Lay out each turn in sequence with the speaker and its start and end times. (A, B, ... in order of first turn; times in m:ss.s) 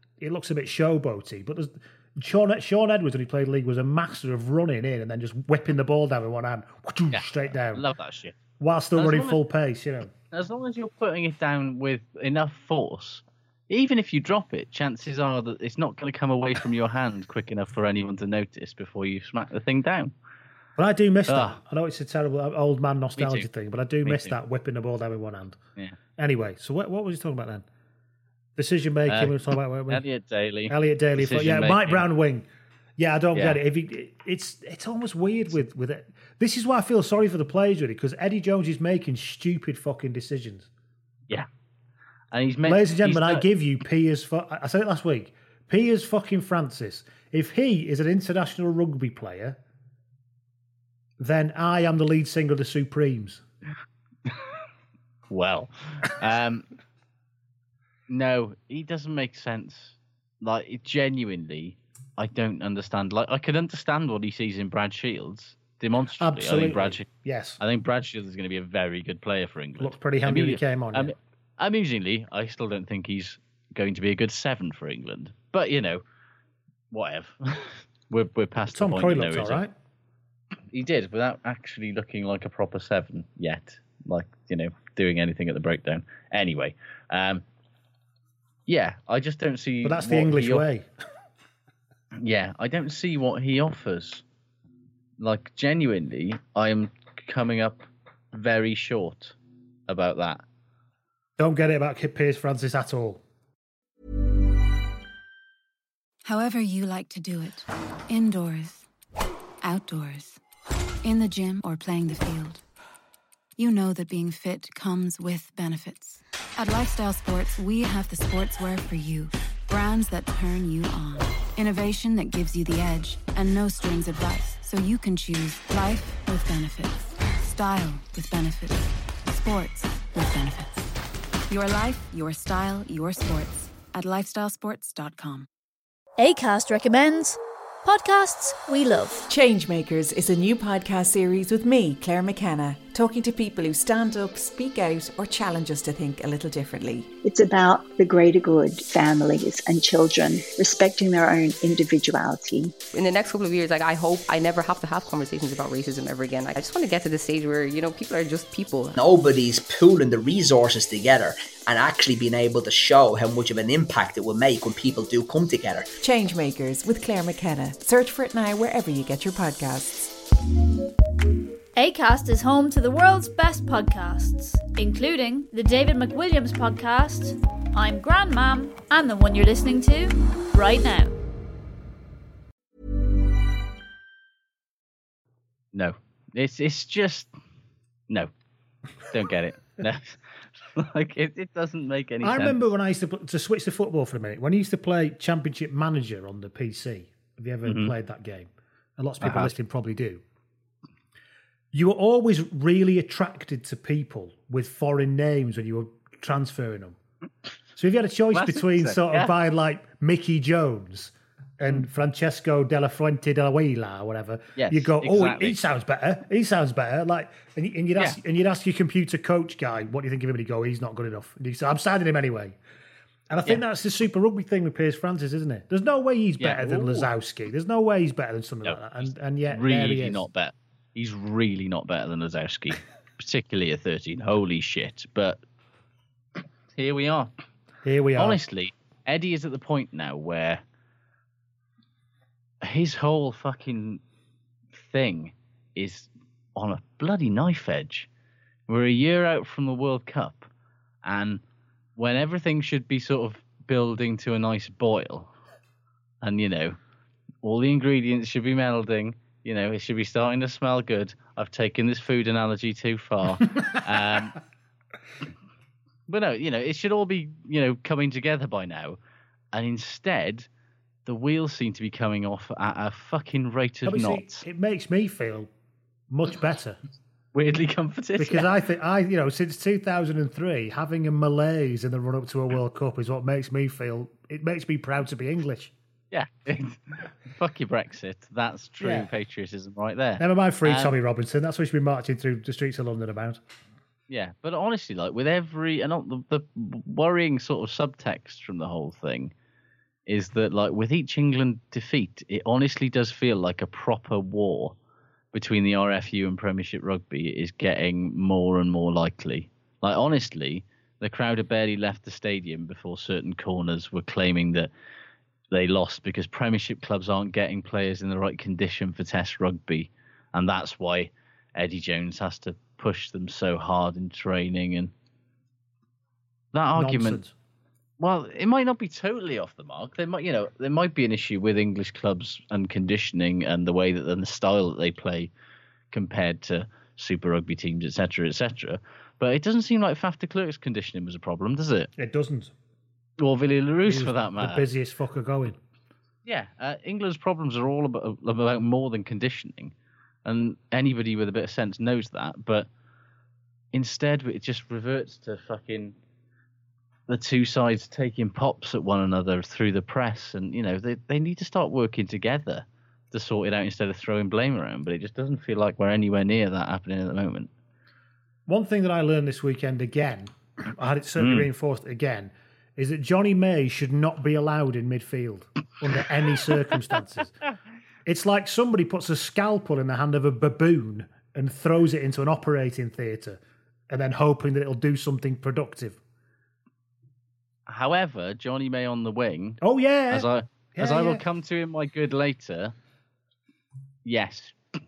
0:00.2-0:07.8 A
0:07.1-0:08.4 B
0:08.6-0:10.1 A
0:09.0-0:09.4 B
0:10.3-0:20.1 B
0:20.8-0:25.6 A
0:21.3-0:21.6 B
0:23.2-0:23.5 B
0:24.0-0:24.4 B
0:26.2-0:27.6 A
0:28.6-0:30.0 A
0:29.1-0:32.0 B
0:30.7-0:32.4 A
0:33.0-0:40.7 A
0:33.3-0:33.6 B
0:42.3-0:43.4 B
0:42.6-0:49.6 A
0:51.2-0:53.4 A
0:55.3-0:56.6 B
0:58.1-1:07.1 B
1:06.2-1:07.6 A
1:07.6-1:16.0 B
1:09.8-1:11.1 A
1:16.9-1:19.6 B
1:18.7-1:19.7 A
1:20.7-1:27.4 B
1:28.7-1:30.6 B
1:29.8-1:30.9 A
1:32.2-1:34.2 B
1:35.2-1:39.3 B
1:39.9-1:40.4 B
1:41.4-1:43.2 A
1:46.2-1:48.9 C
1:49.6-1:50.4 C
1:51.0-1:52.6 C
1:53.6-2:10.8 C
2:11.5-2:15.5 C
2:16.2-2:19.2 D
2:19.3-2:27.1 E
2:27.2-2:32.8 F
2:32.9-2:39.0 G
2:39.0-2:45.9 H
2:46.0-2:50.1 E
2:51.7-3:01.1 D
3:05.7-3:07.3 B
3:09.1-3:12.6 B
3:12.2-3:20.2 A
3:17.6-3:17.9 B
3:19.2-3:19.5 B
3:21.7-3:27.0 A
3:27.8-3:42.6 A
3:28.3-3:29.3 B
3:34.6-3:35.6 B
3:43.3-3:50.2 A
3:46.4-3:47.1 B
3:48.6-3:55.4 B
3:56.7-3:57.3 B
3:57.8-3:58.4 A
3:58.2-4:00.6 B
4:02.6-4:04.0 B
4:04.7-4:08.1 B
4:08.7-4:10.5 B
4:11.0-4:11.4 B
4:12.0-4:15.3 B
4:16.2-4:16.8 B
4:17.4-4:24.4 B
4:26.1-4:29.0 B
4:29.5-4:30.5 B
4:31.0-4:34.4 B
4:33.9-4:35.5 A
4:36.1-4:36.8 A
4:37.3-4:38.5 B
4:38.2-4:45.7 A
4:46.1-4:51.0 B
4:48.8-4:49.1 A
4:50.2-4:53.4 A
4:54.1-4:59.3 B
5:00.1-5:04.7 B
5:05.3-5:14.7 B
5:15.5-5:24.9 B
5:26.5-5:27.2 B
5:26.8-5:27.3 A
5:28.0-5:35.3 B
5:35.9-5:41.9 B
5:42.0-5:42.5 A
5:43.2-5:44.6 B
5:43.9-5:45.6 A
5:46.2-5:49.7 B
5:50.2-5:52.7 B
5:53.7-5:56.0 B
5:57.1-6:07.5 B
6:08.5-6:17.3 A
6:11.2-6:11.5 B
6:18.0-6:23.4 A
6:23.9-6:26.0 A
6:27.7-6:32.7 B
6:29.6-6:31.2 A
6:34.0-6:34.6 B